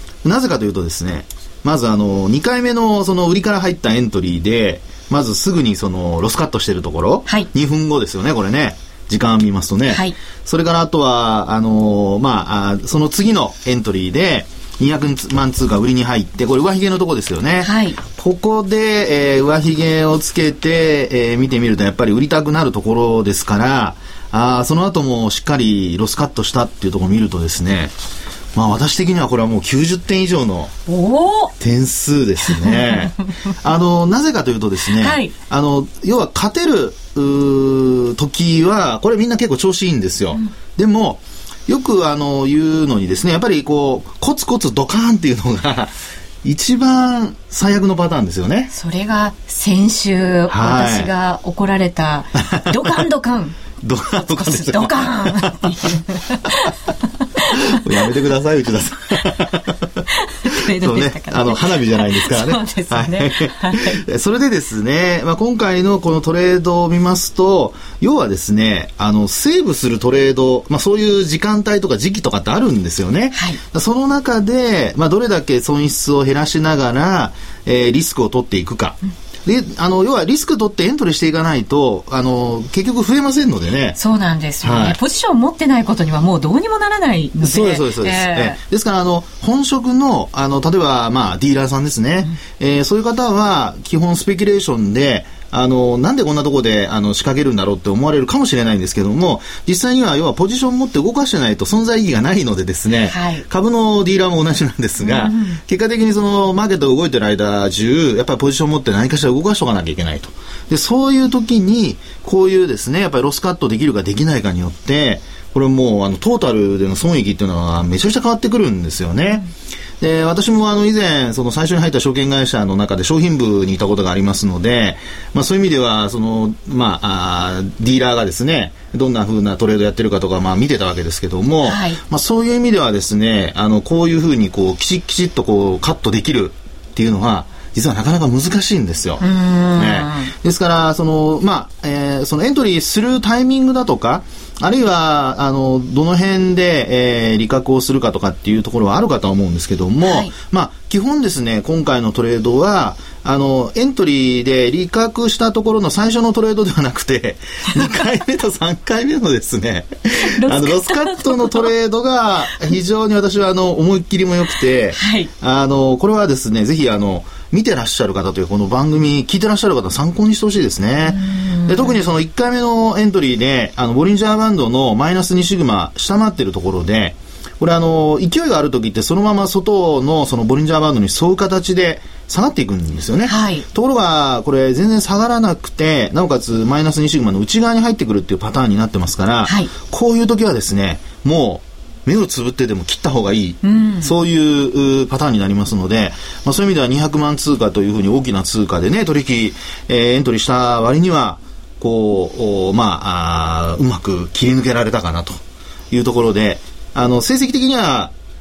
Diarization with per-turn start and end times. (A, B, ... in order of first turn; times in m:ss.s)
0:00.2-0:27.9 A
0:09.9-0:10.2 B
0:17.6-0:18.0 B
0:28.6-0:30.7 A
0:30.9-0:31.5 B
0:31.6-0:45.9 A
0:32.5-0:33.5 B
0:34.9-0:35.3 B
0:46.4-0:48.7 A
0:48.7-0:53.6 B
0:50.5-0:51.1 A
0:52.4-0:52.8 A
0:53.8-0:55.9 A
0:54.2-0:57.8 B
0:57.5-1:24.0 A
1:00.1-1:04.0 B
1:13.3-1:13.6 B
1:24.0-1:28.6 B
1:24.6-1:25.0 A
1:27.4-1:59.5 A
1:43.1-1:43.4 B
1:45.0-1:45.6 B
2:00.0-2:19.2 A
2:11.6-2:12.0 B
2:19.2-2:20.3 B
2:19.8-3:25.4 A
2:30.0-2:30.3 B
2:37.7-2:38.0 B
2:40.2-2:41.7 B
2:45.0-2:45.3 B
2:51.1-2:52.0 B
3:03.2-3:03.7 B
3:09.4-3:09.7 B
3:13.6-3:14.1 B
3:25.9-3:28.1 A